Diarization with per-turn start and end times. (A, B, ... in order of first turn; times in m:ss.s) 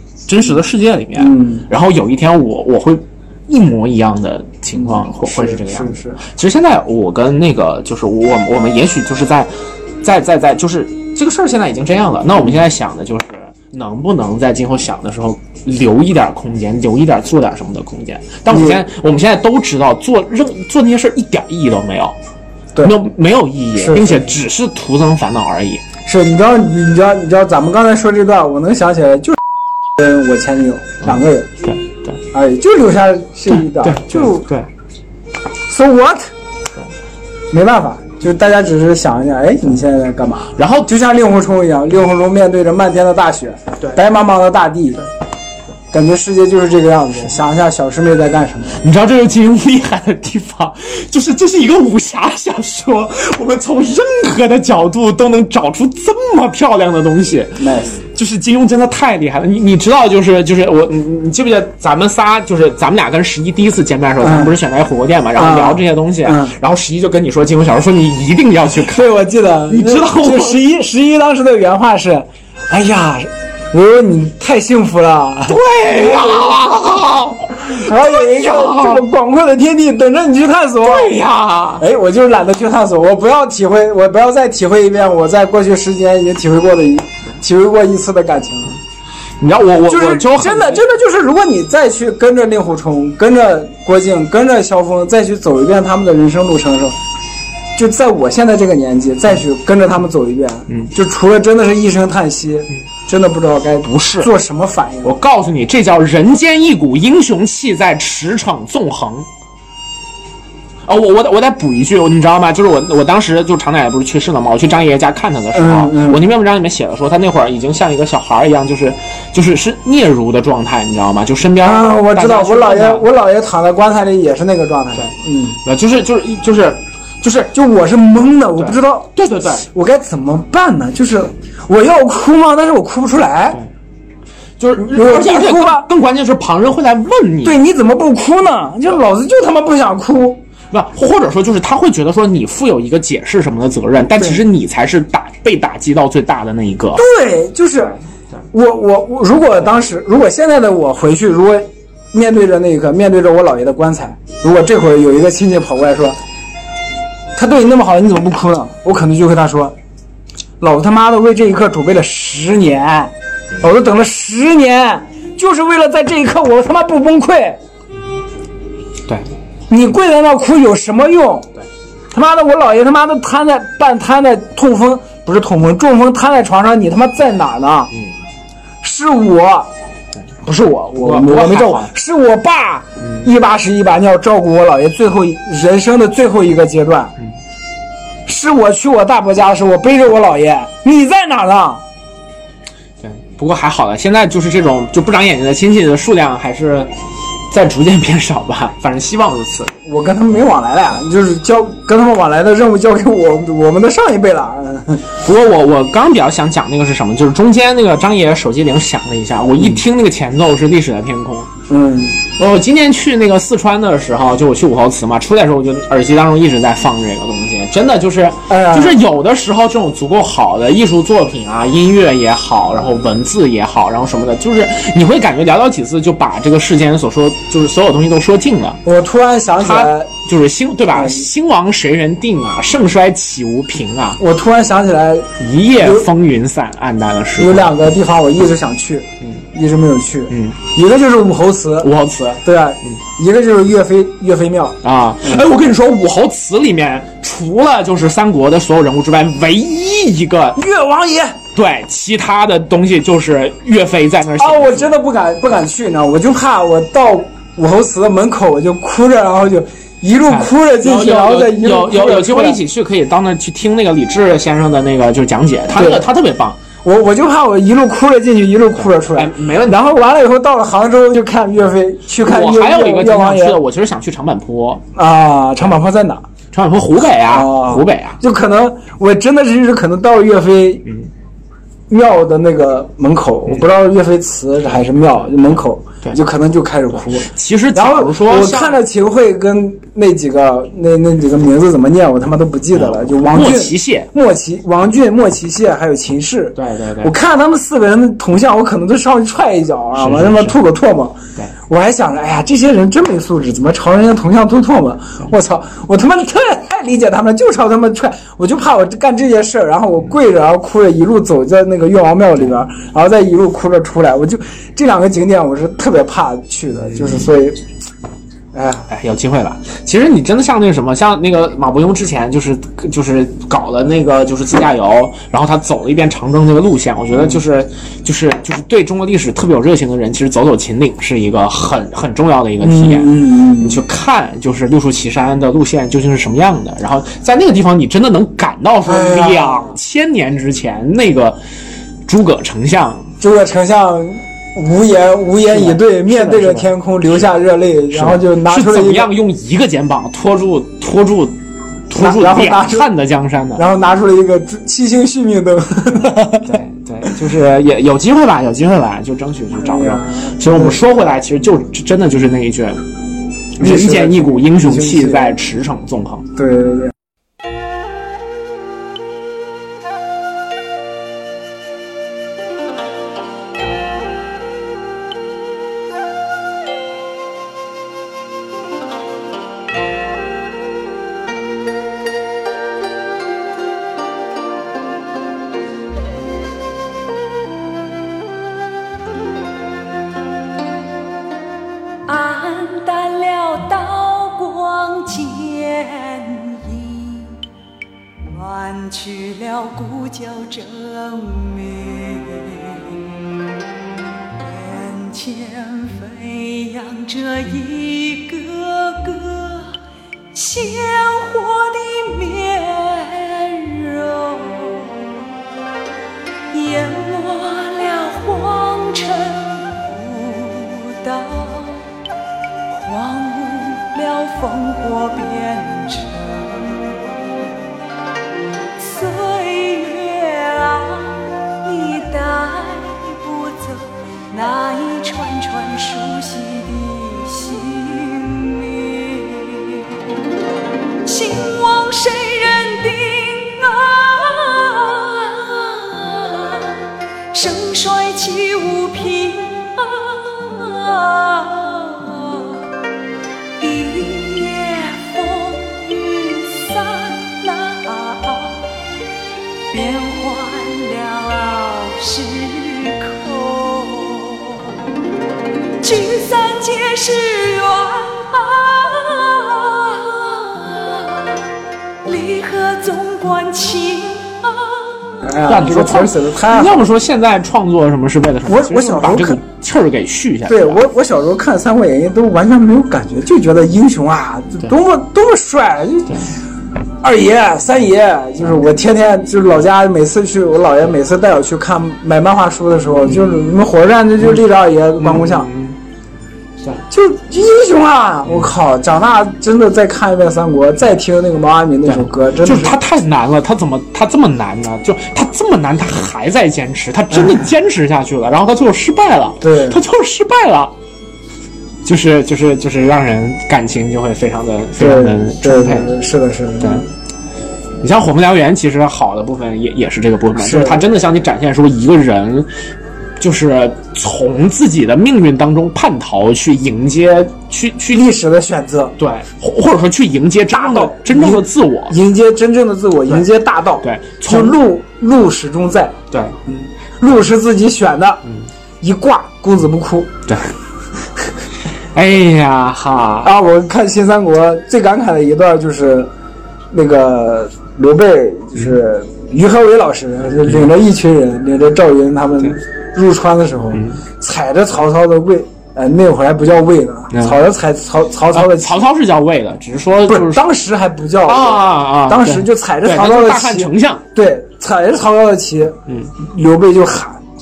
0:00.3-0:22.2 A
0:01.2-0:01.7 B
0:04.8-0:06.2 B
0:18.5-0:18.8 B
0:22.8-0:25.8 A
0:23.8-0:24.3 B
0:26.0-0:29.4 B
0:30.0-0:31.5 B
0:31.0-0:32.2 A
0:32.3-0:34.5 B
0:33.5-0:34.7 A
0:35.7-0:36.3 B
0:37.5-0:45.0 B
0:40.6-0:40.9 A
0:45.9-0:48.8 B
0:48.8-1:09.1 A
0:57.6-0:58.0 B
1:04.2-1:04.6 B
1:05.4-1:06.5 B
1:08.9-1:16.5 B
1:09.7-1:10.6 A
1:15.5-1:19.0 A
1:17.6-1:21.2 B
1:20.8-1:21.8 A
1:21.8-1:28.8 B
1:29.4-1:30.8 A
1:29.9-1:37.0 B
1:37.8-1:45.2 B
1:43.8-1:44.3 A
1:45.0-1:49.3 A
1:50.9-2:03.1 A
1:55.5-1:56.2 B
2:01.6-2:05.6 B
2:05.6-2:07.5 A
2:07.5-2:09.1 B
2:08.6-2:09.6 A
2:09.6-2:13.6 B
2:14.6-2:17.6 A
2:14.8-2:15.9 B
2:17.4-2:20.4 B
2:20.7-2:27.0 A
2:27.0-2:28.0 B
2:28.5-2:36.2 B
2:37.4-2:39.8 B
2:40.6-2:47.6 B
2:49.7-2:51.5 B
2:52.1-2:57.9 B
2:58.8-2:59.7 B
3:00.5-3:07.1 B
3:00.9-3:01.9 A
3:03.0-3:03.3 A
3:08.3-3:11.8 B
3:13.0-3:16.9 A
3:17.5-3:19.7 A
3:19.9-3:25.1 B
3:25.2-3:31.5 A
3:31.7-3:32.2 B
3:32.4-3:48.8 A
3:38.5-3:39.0 B
3:48.8-3:50.1 B
3:49.6-3:54.2 A
3:50.9-3:51.3 B
3:54.2-3:56.1 B
3:55.4-3:57.7 A
3:57.4-4:01.9 B
4:00.3-4:00.6 A
4:01.8-4:03.0 A
4:02.4-4:05.4 B
4:04.8-4:10.6 A
4:10.6-4:11.4 B
4:11.6-4:15.0 A
4:14.4-4:22.6 B
4:20.3-4:26.6 A
4:25.8-4:26.1 B
4:26.8-4:33.6 B
4:28.8-4:29.9 A
4:32.2-4:34.8 A
4:35.0-4:36.2 B
4:36.5-4:38.2 A
4:37.3-4:40.9 B
4:41.9-5:17.6 B
4:47.1-4:48.8 A
4:52.7-4:54.1 A
4:56.6-4:57.1 A
5:00.0-5:00.6 A
5:16.9-5:17.3 A
5:18.5-5:18.9 B
5:18.9-5:41.4 A
5:32.6-5:33.8 B
5:38.9-5:39.8 B
5:42.1-5:43.1 A
5:43.2-5:49.1 B
5:45.4-5:46.8 A
5:47.9-5:53.7 A
5:51.9-5:52.9 B
5:53.6-5:56.5 B
5:56.1-6:02.8 A
5:59.6-6:00.8 B
6:03.6-6:06.3 A
6:03.6-6:05.4 B
6:06.4-6:06.9 B
6:32.1-6:37.4 C
6:38.3-6:43.0 C
6:44.4-6:49.7 C
6:50.3-6:55.2 C
6:56.5-7:01.9 C
7:02.7-7:07.0 C
7:08.8-7:19.9 C
7:21.1-7:26.8 C
7:27.3-7:32.7 C
7:33.6-7:38.7 C
7:39.7-7:44.8 C
7:45.8-7:51.4 C
7:52.0-7:55.0 C
7:55.2-7:56.9 B
7:55.5-8:00.8 A
7:58.5-7:59.4 B
8:00.5-8:06.2 B
8:07.0-8:15.5 B
8:15.0-8:15.8 A
8:16.9-8:22.8 B
8:18.3-8:18.5 A
8:21.9-8:30.7 A
8:27.1-8:27.4 B
8:29.4-8:29.8 B
8:31.8-8:36.0 A
8:34.8-8:36.9 B
8:37.8-8:42.5 A
8:40.4-8:40.9 B
8:43.2-8:48.1 A
8:47.9-8:48.9 B
8:49.0-8:52.0 A
8:50.5-8:56.0 B
8:53.8-8:54.6 A
8:56.1-8:56.4 A
8:56.5-8:58.2 B
8:58.8-9:00.1 B
9:00.3-9:00.5 A
9:01.9-9:03.3 A
9:03.2-9:06.1 B
9:06.7-9:18.8 B
9:13.7-9:14.0 A
9:17.1-9:17.4 A
9:18.3-9:20.5 A
9:20.1-9:27.2 B
9:21.2-9:24.0 A
9:25.9-9:26.1 A